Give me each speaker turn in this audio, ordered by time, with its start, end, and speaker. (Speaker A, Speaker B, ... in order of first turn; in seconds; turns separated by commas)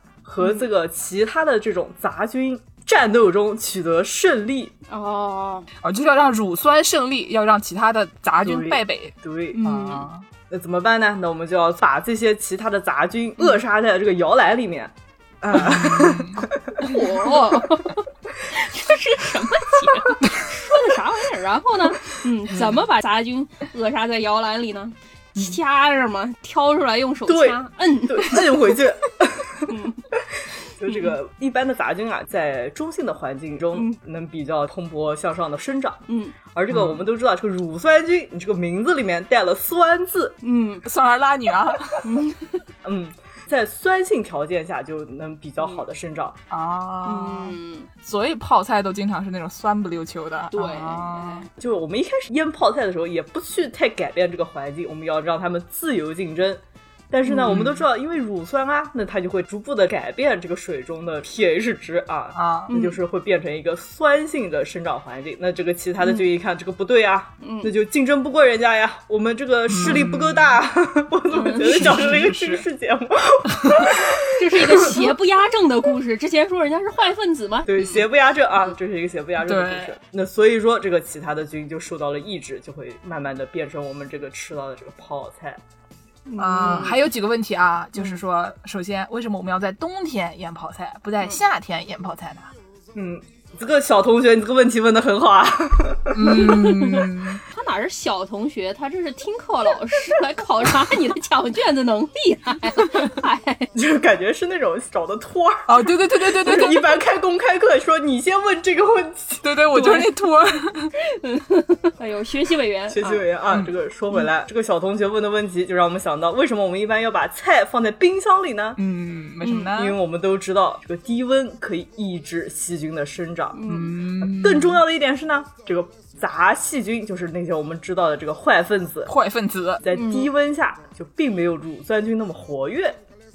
Speaker A: 0.2-4.7, Speaker B: 4.9-5.7, Speaker C: 5.8-10.2, Speaker A: 8.4-9.6, Speaker B: 9.5-10.1, Speaker A: 10.5-16.9, Speaker C: 15.5-16.9, Speaker B: 16.8-28.5, Speaker A: 27.3-40.4, Speaker B: 29.7-30.0, Speaker B: 30.8-31.1, Speaker B: 36.1-36.4, Speaker C: 36.7-37.0, Speaker B: 40.4-40.8, Speaker C: 40.8-42.1, Speaker B: 42.0-42.6, Speaker A: 42.8-46.4, Speaker C: 46.5-51.5, Speaker B: 47.0-47.9, Speaker B: 50.5-51.5, Speaker A: 51.6-75.0, Speaker B: 57.3-57.6, Speaker C: 57.4-57.9, Speaker C: 62.3-62.7, Speaker B: 62.7-63.0, Speaker B: 67.4-67.7, Speaker C: 69.7-70.6, Speaker B: 71.3-72.0, Speaker C: 71.6-72.7, Speaker C: 73.6-74.0, Speaker B: 74.3-78.0, Speaker A: 77.7-85.6, Speaker C: 79.4-80.0, Speaker B: 86.2-87.1, Speaker C: 86.4-92.5, Speaker A: 92.9-96.3, Speaker C: 96.1-97.4, Speaker B: 96.2-103.7, Speaker A: 103.7-109.5, Speaker C: 105.7-106.9, Speaker C: 109.4-110.9, Speaker B: 109.7-110.1, Speaker B: 111.0-113.2, Speaker A: 112.9-118.8, Speaker C: 118.8-120.0, Speaker B: 119.4-119.7, Speaker A: 119.7-123.6, Speaker B: 123.5-124.0, Speaker C: 123.7-124.8, Speaker A: 124.2-129.1, Speaker C: 129.1-129.8, Speaker A: 129.8-133.0, Speaker B: 129.9-130.3